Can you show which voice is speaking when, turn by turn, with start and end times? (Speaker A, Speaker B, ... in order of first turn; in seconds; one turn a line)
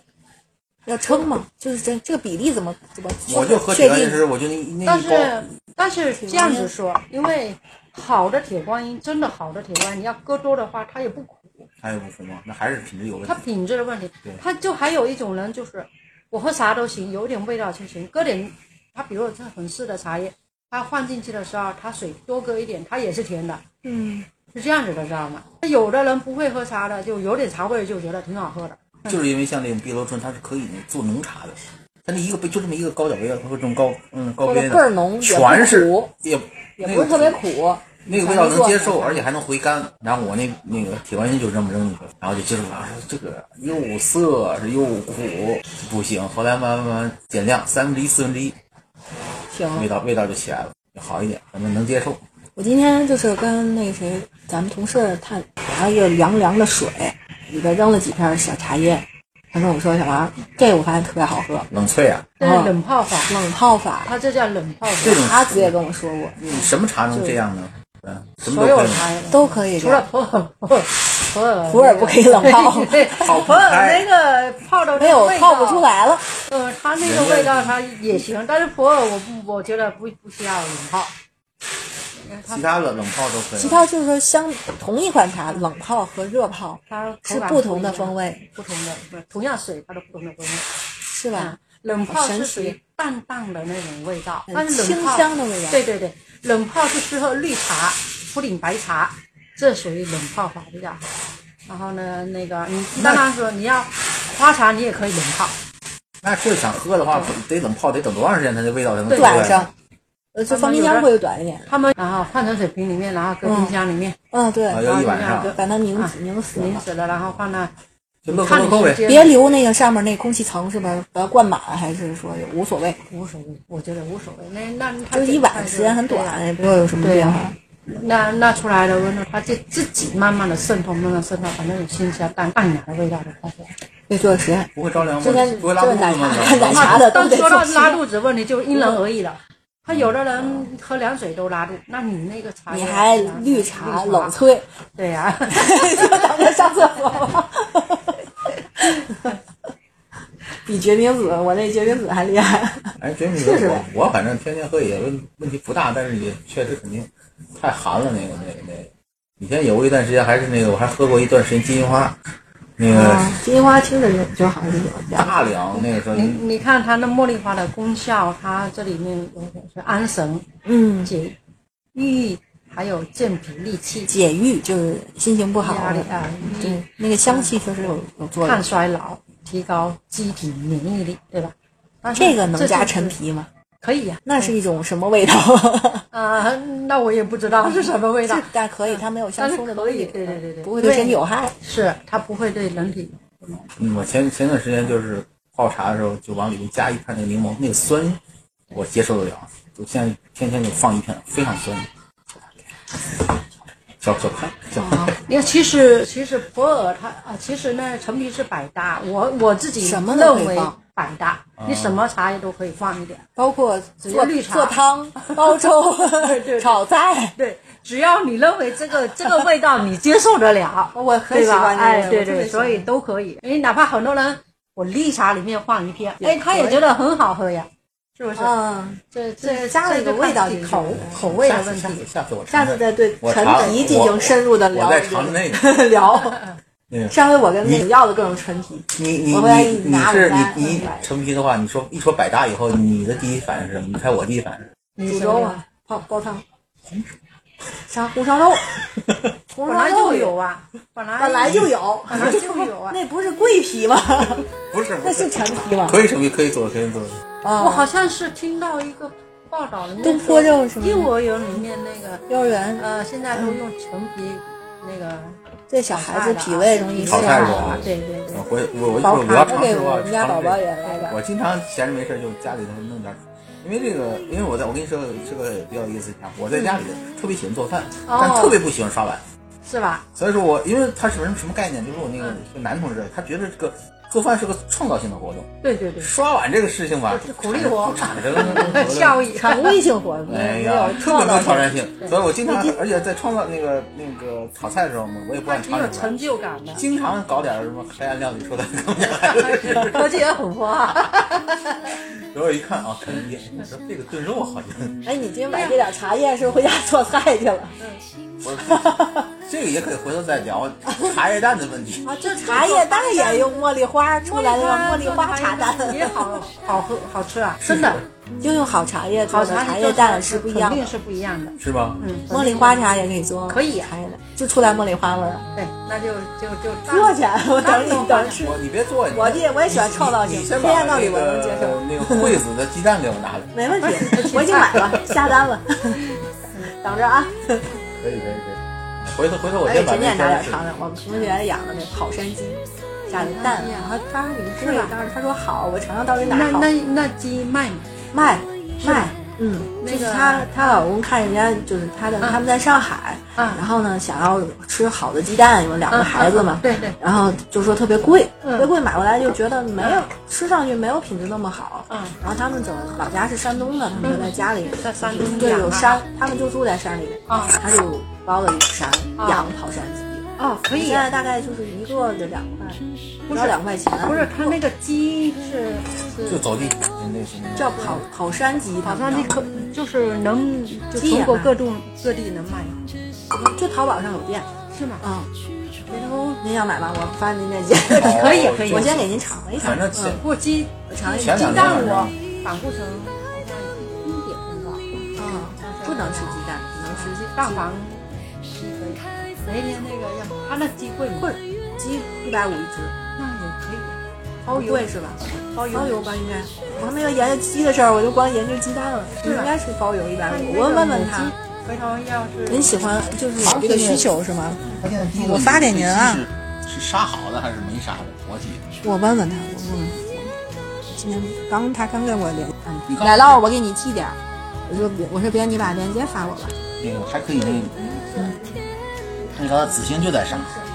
Speaker A: 0.8-4.2
Speaker B: 3.2-5.3
Speaker C: 4.8-11.7
Speaker A: 6.2-6.7
Speaker B: 11.8-13.4
Speaker C: 13.2-23.6
Speaker A: 23.8-24.3
Speaker C: 24.5-29.1
Speaker B: 29.1-37.4
Speaker A: 34.4-36.1
Speaker A: 36.8-39.2
Speaker B: 38.0-48.5
Speaker A: 49.5-49.9
Speaker B: 49.7-52.2
Speaker A: 52.5-61.7
Speaker B: 61.7-62.3
Speaker C: 62.4-63.3
Speaker A: 62.4-62.7
Speaker A: 63.2-64.1
Speaker C: 64.0-65.2
Speaker B: 65.0-65.7
Speaker A: 65.1-66.5
Speaker B: 66.4-69.1
Speaker A: 67.1-67.4
Speaker C: 68.4-75.9
Speaker A: 69.3-70.1
Speaker A: 71.7-73.5
Speaker B: 73.2-74.1
Speaker A: 75.0-76.4
Speaker C: 76.5-81.1
Speaker B: 77.0-77.8
Speaker C: 82.1-82.7
Speaker B: 82.5-83.8
Speaker A: 83.5-88.5
Speaker C: 86.9-90.7
Speaker A: 91.1-91.6
Speaker C: 91.3-101.0
Speaker A: 92.1-92.8
Speaker A: 94.5-95.8
Speaker C: 101.7-105.5
Speaker B: 103.0-103.2
Speaker B: 106.2-109.6
Speaker C: 109.1-109.7
Speaker A: 109.1-109.7
Speaker A: 110.3-111.7
Speaker C: 110.5-111.1
Speaker C: 111.7-114.2
Speaker A: 113.4-113.7
Speaker A: 114.3-116.8
Speaker B: 114.7-115.5
Speaker C: 114.8-117.7
Speaker B: 118.2-119.0
Speaker C: 118.3-119.3
Speaker A: 119.0-123.0
Speaker C: 123.0-126.5
Speaker A: 125.1-127.5
Speaker C: 127.0-133.7
Speaker A: 134.1-138.0
Speaker B: 134.7-137.1
Speaker C: 135.2-135.7
Speaker C: 136.6-144.3
Speaker A: 138.7-139.0
Speaker B: 139.9-140.6
Speaker A: 142.7-144.7
Speaker C: 144.9-146.5
Speaker A: 145.5-148.0
Speaker A: 148.8-149.2
Speaker A: 150.6-153.9
Speaker B: 153.0-162.2
Speaker B: 162.8-163.3
Speaker A: 162.9-165.4
Speaker B: 165.1-166.4
Speaker C: 166.1-170.4
Speaker A: 170.6-171.1
Speaker C: 171.0-171.4
Speaker C: 171.9-174.1
Speaker A: 174.1-178.6
Speaker C: 175.6-183.2
Speaker A: 182.1-183.5
Speaker C: 183.8-184.5
Speaker A: 184.2-186.1
Speaker C: 186.1-193.7
Speaker A: 187.5-191.5
Speaker B: 193.8-198.2
Speaker B: 198.7-201.9
Speaker B: 204.0-205.1
Speaker A: 204.8-205.1
Speaker C: 205.2-213.2
Speaker A: 209.8-210.8
Speaker B: 211.6-212.0
Speaker A: 213.3-217.4
Speaker C: 214.0-215.3
Speaker C: 216.1-216.8
Speaker C: 217.3-228.6
Speaker A: 220.9-222.9
Speaker A: 226.2-226.8
Speaker A: 228.3-231.3
Speaker C: 229.1-232.0
Speaker B: 231.2-235.6
Speaker A: 232.5-236.4
Speaker B: 236.9-237.8
Speaker A: 237.1-241.1
Speaker B: 238.9-244.7
Speaker C: 244.9-245.6
Speaker A: 245.1-246.4
Speaker B: 246.8-247.2
Speaker A: 247.8-248.8
Speaker A: 249.5-250.3
Speaker C: 249.7-253.0
Speaker A: 251.2-256.0
Speaker B: 254.6-257.2
Speaker A: 257.4-257.9
Speaker C: 257.6-262.2
Speaker A: 260.0-261.1
Speaker A: 262.3-263.6
Speaker C: 262.8-268.4
Speaker A: 265.7-267.9
Speaker B: 267.1-279.2
Speaker A: 269.0-271.2
Speaker C: 269.3-269.7
Speaker C: 278.1-278.6
Speaker C: 279.6-280.1
Speaker B: 280.1-285.5
Speaker C: 285.6-286.1
Speaker B: 286.0-289.3
Speaker C: 287.1-289.8
Speaker A: 288.4-288.7
Speaker A: 289.3-291.7
Speaker B: 290.2-296.1
Speaker C: 295.4-296.8
Speaker B: 296.8-300.2
Speaker C: 299.3-301.6
Speaker B: 302.3-305.0
Speaker A: 305.0-307.8
Speaker C: 305.5-305.8
Speaker C: 307.8-308.0
Speaker B: 308.4-312.1
Speaker A: 308.6-309.3
Speaker A: 312.0-316.4
Speaker C: 312.2-313.7
Speaker C: 314.2-318.0
Speaker B: 317.6-318.0
Speaker A: 318.4-320.9
Speaker C: 319.3-323.9
Speaker B: 321.6-322.0
Speaker A: 322.3-325.5
Speaker C: 325.5-328.4
Speaker A: 326.9-332.4
Speaker B: 328.4-333.5
Speaker A: 333.5-336.1
Speaker C: 333.8-334.7
Speaker A: 336.6-337.7
Speaker B: 337.9-340.6
Speaker A: 339.6-346.7
Speaker C: 343.1-343.9
Speaker C: 344.6-344.9
Speaker C: 346.2-347.9
Speaker A: 348.1-374.6
Speaker C: 348.8-349.1
Speaker C: 349.8-350.8
Speaker C: 353.4-353.6
Speaker C: 355.9-357.0
Speaker C: 358.4-358.7
Speaker C: 359.8-360.1
Speaker C: 361.9-362.1
Speaker C: 364.0-366.0
Speaker C: 367.3-367.6
Speaker C: 369.2-369.5
Speaker C: 370.4-371.1
Speaker C: 373.3-376.5
Speaker B: 376.3-378.1
Speaker A: 377.6-379.5
Speaker C: 378.8-382.9
Speaker A: 380.9-381.5
Speaker A: 383.3-385.3
Speaker C: 384.7-385.1
Speaker C: 385.9-386.4
Speaker A: 386.4-390.2
Speaker C: 387.9-389.0
Speaker B: 387.9-390.2
Speaker C: 389.6-401.4
Speaker A: 390.9-391.9
Speaker B: 391.1-392.1
Speaker A: 395.1-397.7
Speaker A: 401.2-402.9
Speaker C: 403.1-406.2
Speaker A: 404.4-411.3
Speaker C: 409.2-409.5
Speaker C: 410.3-414.1
Speaker A: 412.5-416.2
Speaker B: 414.8-418.6
Speaker A: 418.8-420.4
Speaker A: 420.9-426.6
Speaker B: 422.9-423.4
Speaker B: 426.8-427.8
Speaker B: 429.3-430.5